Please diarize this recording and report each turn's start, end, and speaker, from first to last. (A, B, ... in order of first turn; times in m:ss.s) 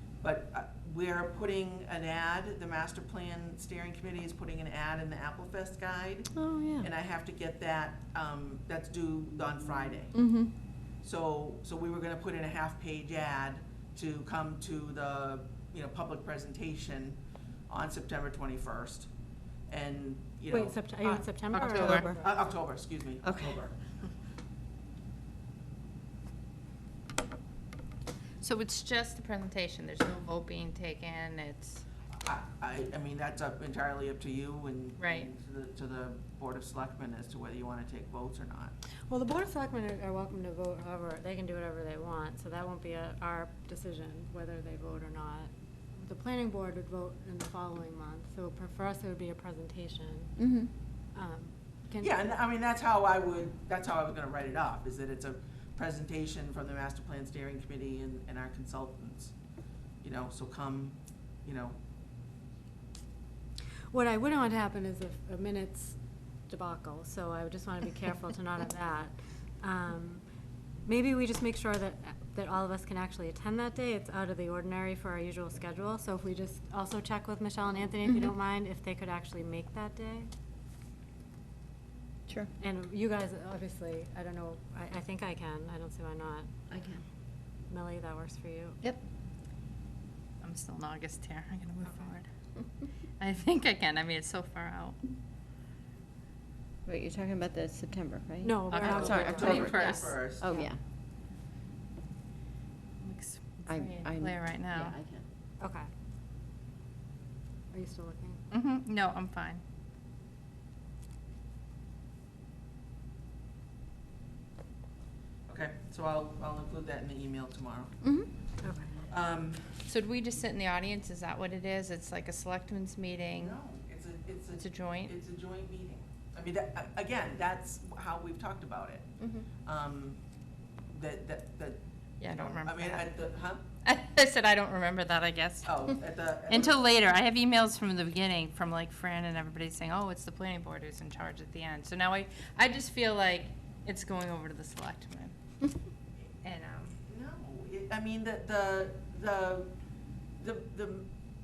0:00.2-0:06.3 A
0:06.3-0:06.9 B
0:06.8-0:10.1 A
0:10.1-0:10.5 B
0:11.0-0:19.1 A
0:19.7-0:20.8 A
0:20.5-0:22.3 C
0:21.1-0:22.1 D
0:21.6-0:23.8 A
0:23.2-0:23.6 B
0:28.4-0:31.8 D
0:32.1-0:38.7 A
0:35.0-0:35.3 D
0:39.1-0:50.3 C
0:50.4-0:50.7 B
0:51.1-0:52.3 C
0:52.0-0:59.3 A
1:00.0-1:01.8 A
1:03.9-1:06.0 C
1:06.5-1:10.2 C
1:10.9-1:20.3 C
1:22.6-1:26.5 C
1:26.7-1:27.0 B
1:27.7-1:28.8 C
1:30.4-1:32.3 D
1:33.2-1:35.0 D
1:36.9-1:40.8 B
1:38.4-1:40.6 C
1:38.7-1:40.2 D
1:38.9-1:40.6 A
1:43.0-1:45.0 D
1:43.7-1:45.3 B
1:45.6-1:45.9 C
1:47.7-1:48.4 C
1:48.5-1:49.6 D
1:55.5-1:57.9 A
1:58.0-1:58.3 B
1:58.6-1:59.1 C
1:59.1-1:59.6 A
1:59.9-2:03.6 D
2:03.4-2:09.1 A
2:04.6-2:05.1 D
2:09.6-2:10.2 A
2:10.9-2:13.6 A
2:12.2-2:13.1 D
2:13.8-2:15.9 D
2:15.6-2:16.8 A
2:16.5-2:25.3 D
2:26.4-2:27.0 D
2:27.1-2:29.7 A
2:30.4-2:31.1 A